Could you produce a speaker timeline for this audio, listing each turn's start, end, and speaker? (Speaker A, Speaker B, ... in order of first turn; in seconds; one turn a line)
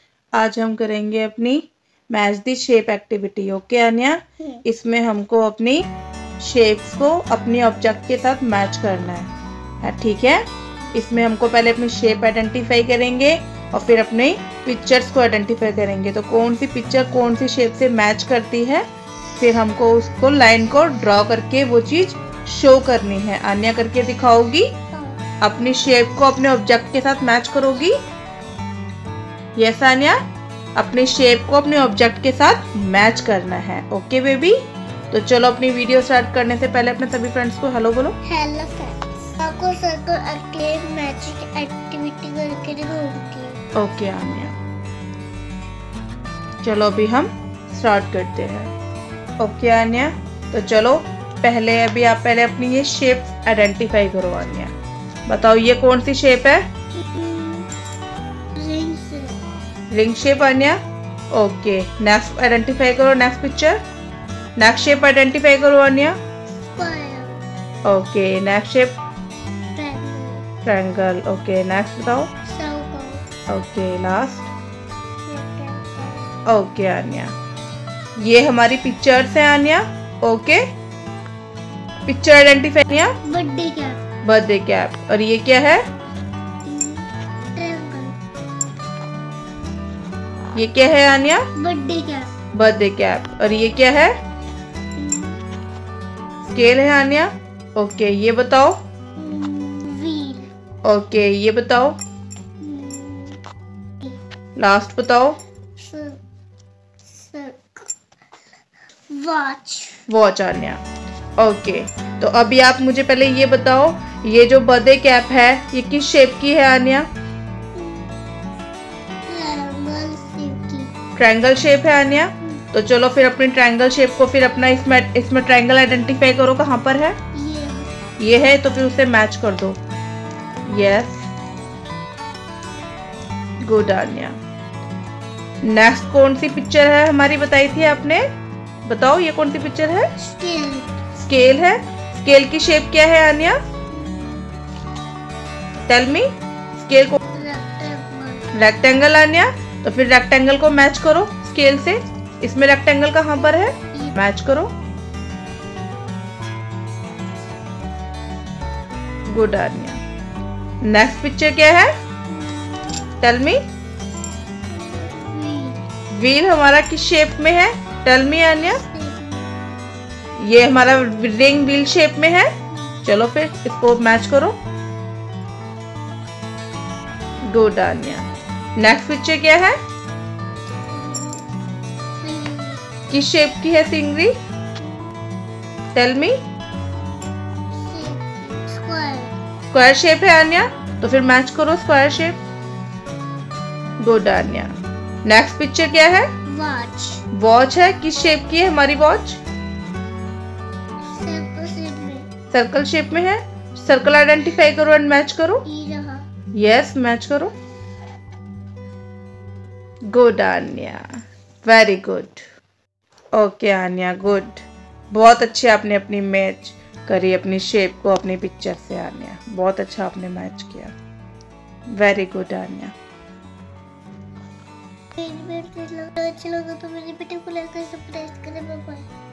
Speaker A: 0.3-5.8
Speaker A: 6.4-9.3
Speaker A: 9.8-18.8
Speaker A: 19.4-24.7
Speaker B: 24.9-25.2
Speaker A: 25.4-28.0
Speaker A: 29.6-30.2
Speaker A: 30.8-34.6
Speaker A: 35.1-38.1
Speaker B: 38.2-43.6
Speaker A: 43.8-44.5
Speaker A: 46.6-48.7
Speaker A: 49.4-54.7
Speaker A: 55.3-56.6
Speaker B: 56.9-57.7
Speaker B: 58.5-59.4
Speaker A: 59.9-60.8
Speaker A: 61.3-63.8
Speaker A: 64.6-66.2
Speaker B: 66.7-67.4
Speaker A: 67.8-68.9
Speaker B: 69.7-70.4
Speaker A: 70.6-72.3
Speaker B: 72.4-73.2
Speaker A: 73.5-74.5
Speaker B: 75.3-76.3
Speaker A: 76.5-77.3
Speaker A: 78.2-80.6
Speaker A: 82.1-83.2
Speaker B: 83.2-84.0
Speaker A: 84.2-85.8
Speaker B: 86.7-88.2
Speaker A: 90.5-91.5
Speaker B: 91.5-92.3
Speaker A: 92.5-94.1
Speaker B: 95.0-95.4
Speaker A: 96.5-98.8
Speaker B: 99.2-100.5
Speaker A: 100.8-102.0
Speaker B: 102.6-103.4
Speaker A: 104.6-105.4
Speaker B: 105.8-106.2
Speaker B: 107.1-107.9
Speaker B: 109.1-110.0
Speaker A: 110.1-110.8
Speaker A: 111.4-117.0
Speaker B: 117.7-118.1
Speaker B: 119.3-120.9
Speaker A: 121.2-127.2
Speaker B: 127.3-127.9
Speaker A: 128.2-129.8
Speaker A: 130.7-131.2
Speaker A: 133.7-134.4
Speaker A: 135.7-138.2
Speaker A: 138.9-140.1
Speaker B: 140.2-141.0
Speaker A: 141.2-143.6
Speaker B: 143.9-144.4
Speaker A: 145.9-147.2
Speaker B: 147.3-148.5
Speaker A: 148.5-154.7
Speaker A: 159.3-160.0
Speaker A: 160.8-161.9
Speaker B: 162.3-163.1
Speaker A: 163.2-163.6
Speaker B: 164.7-165.8
Speaker A: 166.1-168.8
Speaker B: 168.4-169.8
Speaker A: 170.4-172.5
Speaker A: 173.0-174.6
Speaker A: 177.5-179.8
Speaker B: 180.9-181.4
Speaker B: 182.2-182.8
Speaker A: 183.1-184.3
Speaker A: 185.9-186.4
Speaker B: 187.7-189.3
Speaker A: 189.7-192.4
Speaker A: 194.0-194.7
Speaker A: 195.2-196.3
Speaker B: 196.5-197.2
Speaker A: 197.3-199.4
Speaker B: 201.1-202.3
Speaker A: 202.5-205.6
Speaker B: 205.6-206.2
Speaker A: 206.5-207.5
Speaker A: 210.1-211.1
Speaker A: 211.6-212.4
Speaker A: 213.3-220.9
Speaker A: 222.0-222.9
Speaker B: 225.1-229.1